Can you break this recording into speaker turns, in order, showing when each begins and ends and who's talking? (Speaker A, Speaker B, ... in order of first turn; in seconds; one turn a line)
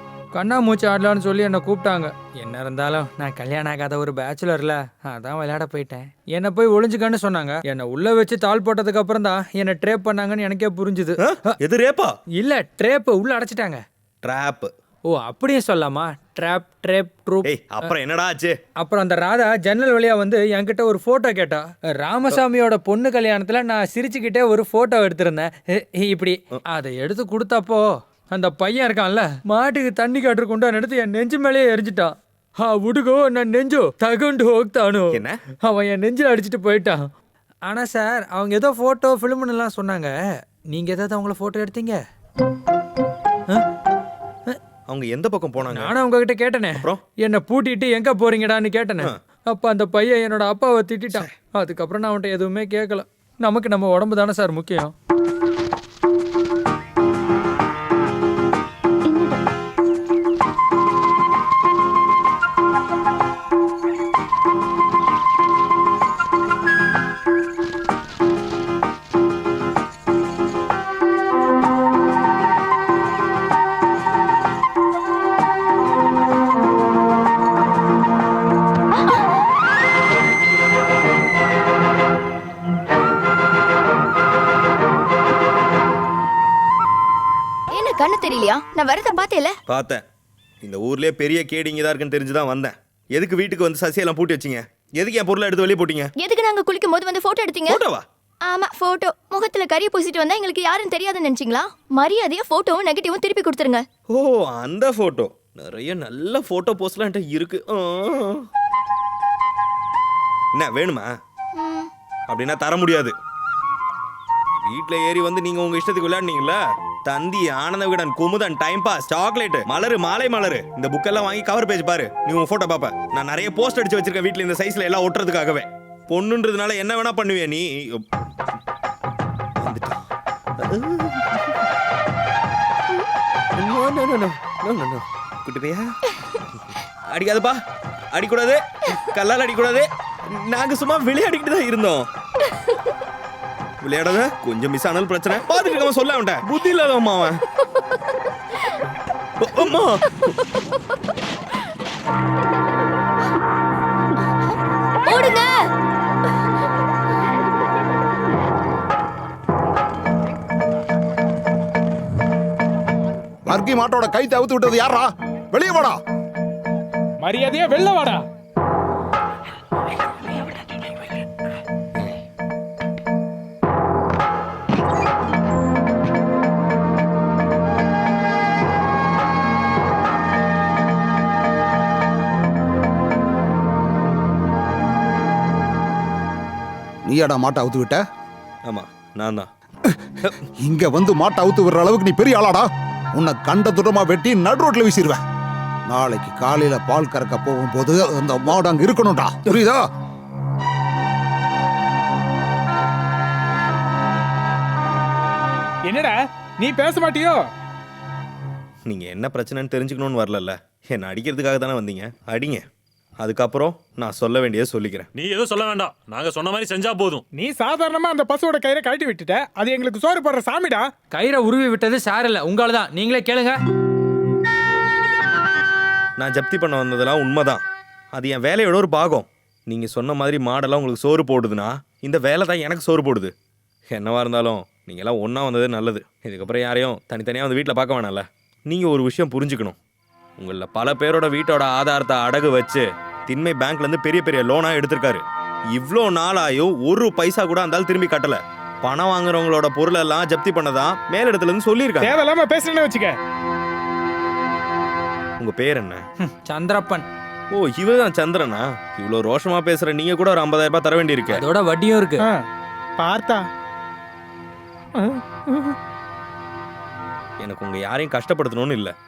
Speaker A: 0.3-11.5
Speaker B: 11.2-12.1
Speaker A: 12.4-13.8
Speaker B: 14.2-14.7
Speaker A: 15.1-17.9
Speaker B: 17.4-18.6
Speaker A: 18.8-37.0
Speaker B: 35.1-35.4
Speaker A: 37.7-40.1
Speaker A: 40.7-42.0
Speaker B: 44.9-45.9
Speaker A: 45.7-54.9
Speaker C: 87.7-89.6
Speaker B: 89.7-90.0
Speaker B: 90.6-96.1
Speaker C: 96.2-97.8
Speaker B: 97.7-98.0
Speaker C: 98.5-103.8
Speaker B: 104.1-108.5
Speaker B: 110.5-111.1
Speaker C: 111.6-111.9
Speaker B: 112.3-113.1
Speaker B: 114.6-128.0
Speaker B: 129.6-130.1
Speaker B: 130.6-131.5
Speaker B: 133.6-136.0
Speaker B: 137.1-137.6
Speaker B: 138.1-142.0
Speaker B: 143.8-147.4
Speaker B: 149.4-150.4
Speaker C: 155.0-155.7
Speaker D: 163.4-166.0
Speaker E: 167.2-168.2
Speaker D: 187.1-188.0
Speaker B: 188.6-189.5
Speaker D: 189.9-192.7
Speaker D: 193.2-195.2
Speaker D: 195.9-199.8
Speaker E: 205.9-207.4
Speaker B: 208.8-212.6
Speaker B: 213.2-215.1
Speaker F: 215.1-217.2
Speaker E: 217.3-220.9
Speaker A: 221.1-223.6
Speaker B: 226.2-227.6
Speaker B: 228.1-233.3
Speaker B: 233.9-239.8
Speaker B: 240.4-252.1
Speaker E: 252.0-253.2
Speaker B: 255.4-256.0
Speaker A: 256.2-257.1
Speaker B: 257.5-261.4
Speaker A: 261.3-262.2
Speaker E: 263.0-263.4
Speaker E: 265.0-265.7
Speaker B: 267.4-268.9